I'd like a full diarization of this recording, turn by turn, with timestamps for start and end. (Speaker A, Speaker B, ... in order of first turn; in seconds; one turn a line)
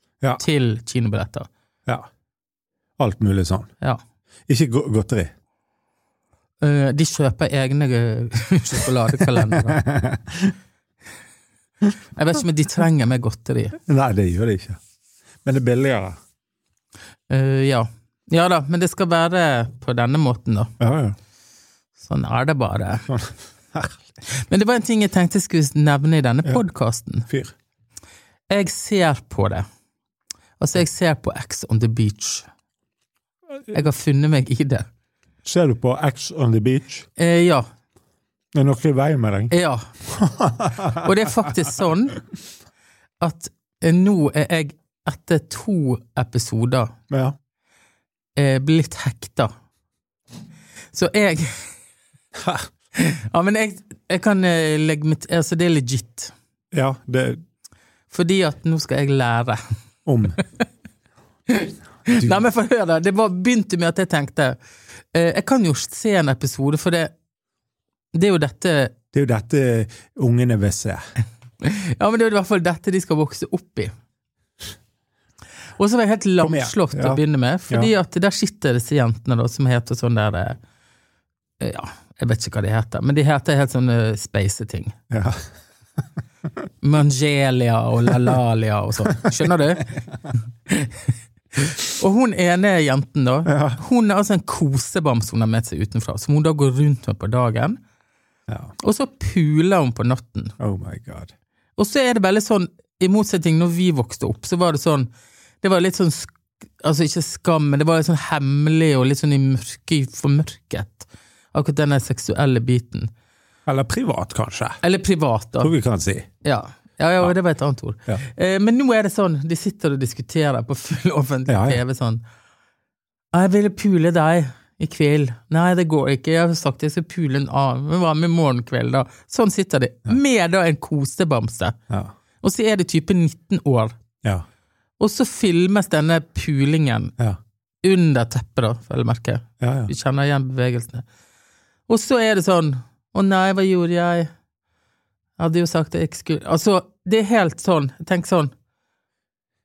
Speaker A: 0.4-1.5
Speaker B: 3.0-3.7
Speaker B: 4.5-5.3
Speaker A: 6.6-9.8
Speaker B: 9.4-10.5
Speaker A: 12.2-13.8
Speaker B: 13.9-14.8
Speaker B: 15.4-16.2
Speaker A: 17.3-20.7
Speaker B: 20.8-21.1
Speaker A: 22.0-23.1
Speaker B: 23.1-24.0
Speaker A: 24.3-27.3
Speaker B: 27.3-27.5
Speaker A: 28.5-29.6
Speaker A: 30.6-32.5
Speaker A: 33.7-34.9
Speaker B: 35.4-37.1
Speaker A: 37.2-37.7
Speaker B: 38.5-39.5
Speaker A: 39.5-39.9
Speaker B: 40.0-41.5
Speaker A: 40.9-42.2
Speaker A: 43.2-46.9
Speaker B: 47.1-47.4
Speaker A: 48.4-49.5
Speaker A: 50.9-51.7
Speaker B: 52.3-52.7
Speaker A: 52.9-56.3
Speaker B: 56.7-57.4
Speaker A: 58.1-59.7
Speaker B: 60.0-60.4
Speaker A: 61.5-64.6
Speaker A: 65.1-67.1
Speaker A: 68.1-68.9
Speaker B: 69.1-71.0
Speaker A: 71.6-73.9
Speaker A: 75.8-80.6
Speaker B: 76.4-77.9
Speaker A: 81.6-85.0
Speaker B: 85.1-85.4
Speaker A: 86.8-89.9
Speaker A: 90.7-91.0
Speaker A: 91.5-97.8
Speaker B: 93.5-93.8
Speaker B: 98.5-98.7
Speaker A: 98.8-100.5
Speaker B: 100.6-101.3
Speaker A: 101.8-105.1
Speaker A: 105.6-113.1
Speaker B: 113.7-114.8
Speaker A: 114.8-115.7
Speaker B: 115.6-116.3
Speaker A: 116.4-122.2
Speaker B: 121.5-121.8
Speaker A: 123.3-131.8
Speaker A: 132.4-134.0
Speaker A: 135.0-137.1
Speaker A: 137.8-141.1
Speaker B: 139.6-139.9
Speaker A: 141.9-144.3
Speaker A: 145.4-148.5